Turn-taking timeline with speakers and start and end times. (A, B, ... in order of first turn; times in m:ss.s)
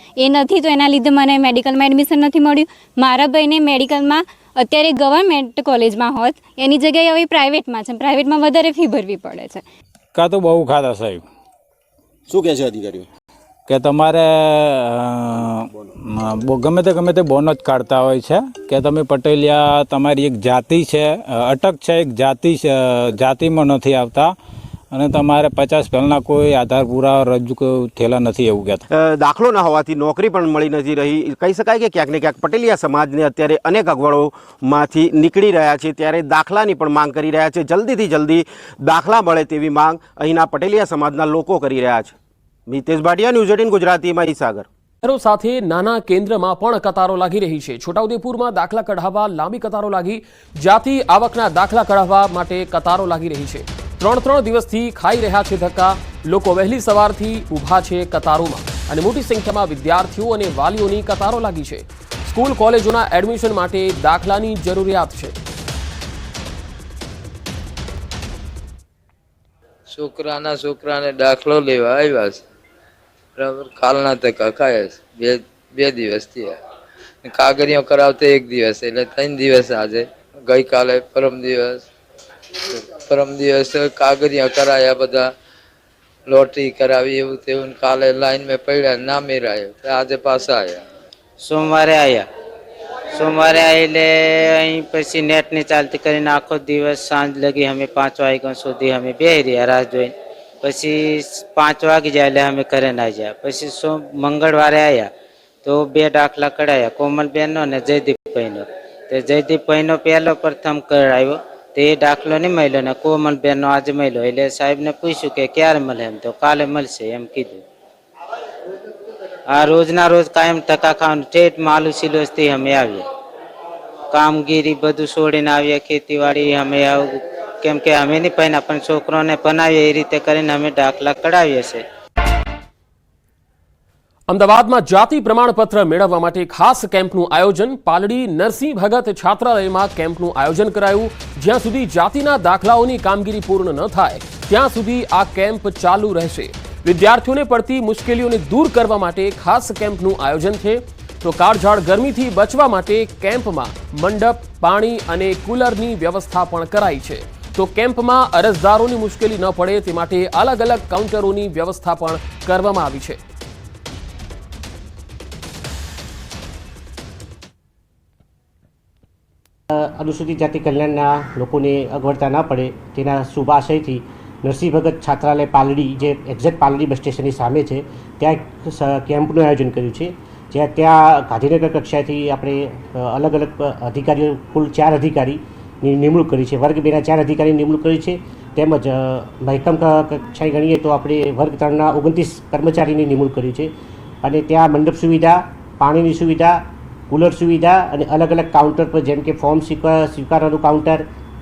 0:00.2-0:09.6 A
0:10.1-0:11.2 B
0:12.3-0:13.0 C
0:13.7-0:24.3 B
0:24.9-0:28.8 B
0:28.9-0:42.1 C
0:42.7-0:44.6 C
0:45.0-1:05.3 D
1:09.9-1:12.4 E
1:13.4-1:16.6 E
1:17.2-1:21.9 E
1:22.6-1:25.3 E
1:26.2-1:30.9 E
1:31.4-1:32.3 F
1:33.1-1:45.1 F
1:45.6-1:57.6 F
1:59.5-2:03.0 F
2:04.1-2:11.8 F
2:14.3-2:43.2 D
2:49.7-3:21.0 G